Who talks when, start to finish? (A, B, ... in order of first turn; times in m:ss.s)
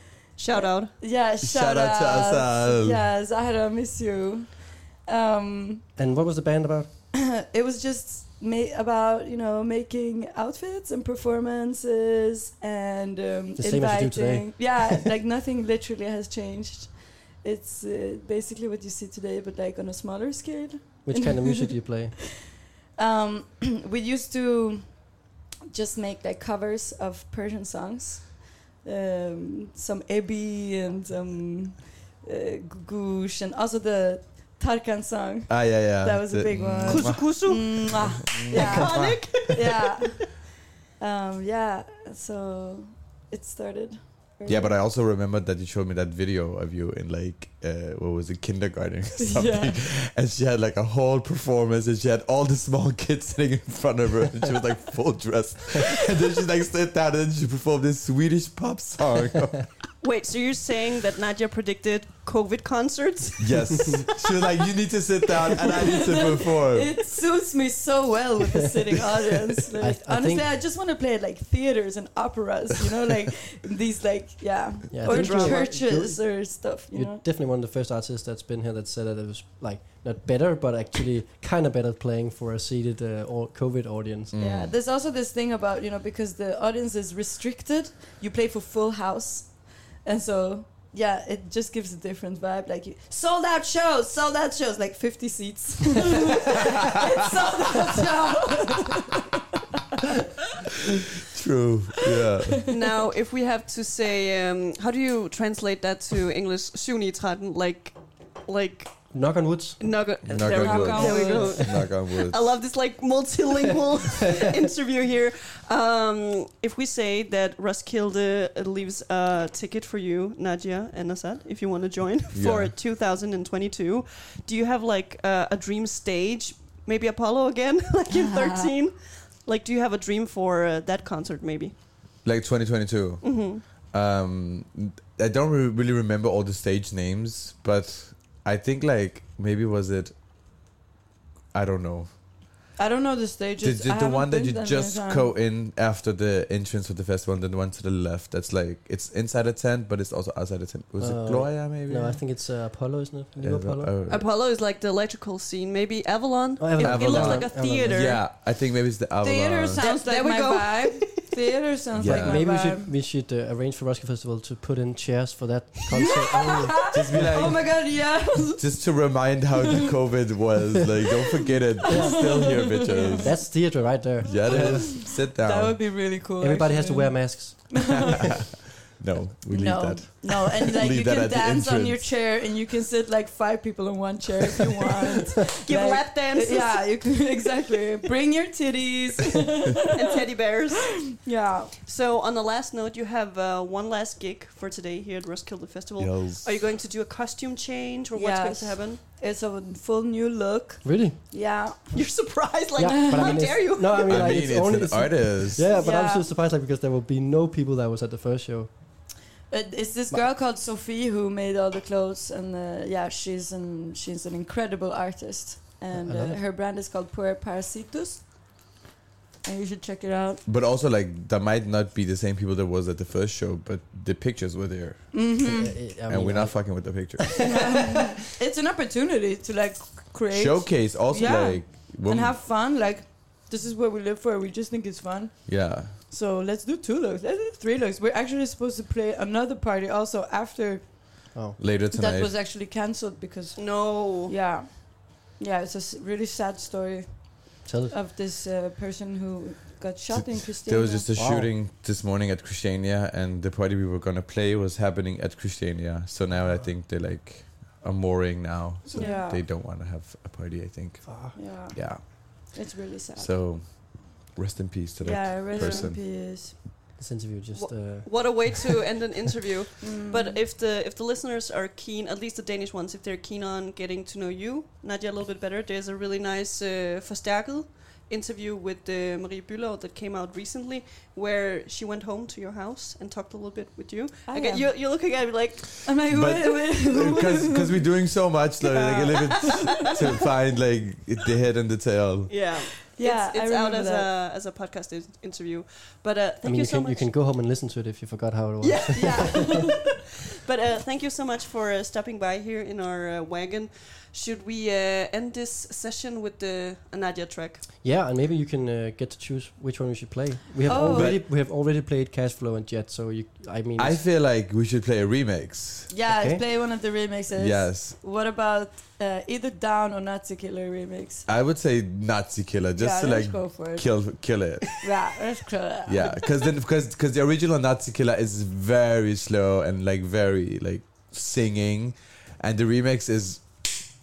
0:00.4-0:00.9 A
0:00.5-0:05.8 B
0:01.4-0:03.1 C
0:06.0-0:06.9 D
0:07.1-0:22.0 B
0:13.6-0:14.8 D
0:21.0-0:22.1 D
0:23.0-0:25.0 B
0:25.7-0:44.8 B
0:35.5-0:39.4 C
0:36.8-0:40.1 A
0:44.4-0:59.7 C
0:49.2-0:49.8 B
1:00.0-1:04.1 A
1:03.4-1:06.9 C
1:05.6-1:17.2 B
1:09.8-1:10.5 D
1:14.9-1:24.4 D
1:15.0-1:15.6 A
1:24.3-1:24.7 C
1:24.4-1:39.0 B
1:41.3-1:42.6 C
1:42.7-1:48.9 A
1:49.1-1:49.8 D
1:49.8-2:11.7 A
1:50.3-1:52.4 C
1:50.5-1:51.7 B
2:02.3-2:02.7 C
2:12.2-2:20.1 C
2:13.2-2:13.6 A
2:21.5-2:22.1 C
2:22.8-2:25.3 B
2:23.6-2:32.2 C
2:31.0-2:33.9 D
2:33.4-2:34.2 C
2:34.1-2:38.3 A
2:36.6-2:38.2 D
2:36.8-2:39.8 C
2:39.2-2:42.9 B
2:39.8-2:41.2 A
2:42.0-2:42.4 C
2:42.0-2:47.4 D
2:46.0-2:48.8 B
2:46.9-2:53.5 C
2:51.9-2:52.5 D
2:51.9-2:53.3 B
2:53.2-2:55.0 D
2:54.2-2:55.8 C
2:54.4-2:58.2 B
2:56.4-2:57.9 D
2:59.0-3:02.1 C
2:59.5-3:09.9 B
3:05.6-3:06.9 A
3:09.9-3:11.0 A
3:10.9-3:11.7 B
3:11.8-3:19.0 A
3:16.0-3:16.6 C
3:18.1-3:21.8 B
3:20.8-3:21.2 D
3:21.9-3:24.5 A
3:22.8-3:28.8 D
3:22.9-3:23.4 B
3:24.0-3:25.7 C
3:25.7-3:26.3 B
3:29.5-3:38.2 B
3:35.9-3:36.4 D
3:39.4-3:40.4 B
3:40.4-3:45.4 C
3:45.1-3:45.8 B
3:45.4-3:47.4 D
3:46.1-3:47.6 C
3:47.4-4:01.2 B
3:50.3-3:52.4 C
3:55.4-3:55.9 C
4:01.6-4:02.3 C
4:01.9-4:11.0 B
4:03.5-4:04.3 A
4:07.6-4:08.0 D
4:10.1-4:22.5 C
4:11.1-4:11.5 D
4:18.8-4:19.2 A
4:19.0-4:19.4 B
4:21.0-4:21.4 D
4:21.3-4:23.4 B
4:23.1-4:26.0 C
4:25.0-4:26.5 B
4:25.5-4:25.9 A
4:27.0-4:28.7 D
4:27.5-4:45.8 A
4:29.8-4:30.4 B
4:44.3-4:44.7 B
4:45.8-4:47.9 B
4:46.1-4:52.4 C
4:48.6-4:49.9 A
4:52.3-4:57.1 A
4:52.9-4:54.1 B
4:56.4-4:59.6 D
4:58.6-4:59.8 A
4:59.0-4:59.8 B
5:00.4-5:07.6 A
5:07.8-5:14.0 D
5:10.6-5:11.2 B
5:10.9-5:11.2 C
5:13.8-5:15.9 C
5:15.9-5:21.3 B
5:16.1-5:16.4 D
5:17.3-5:17.9 C
5:21.3-5:24.9 C
5:22.8-5:24.2 B
5:24.8-5:26.2 B
5:25.8-5:33.7 C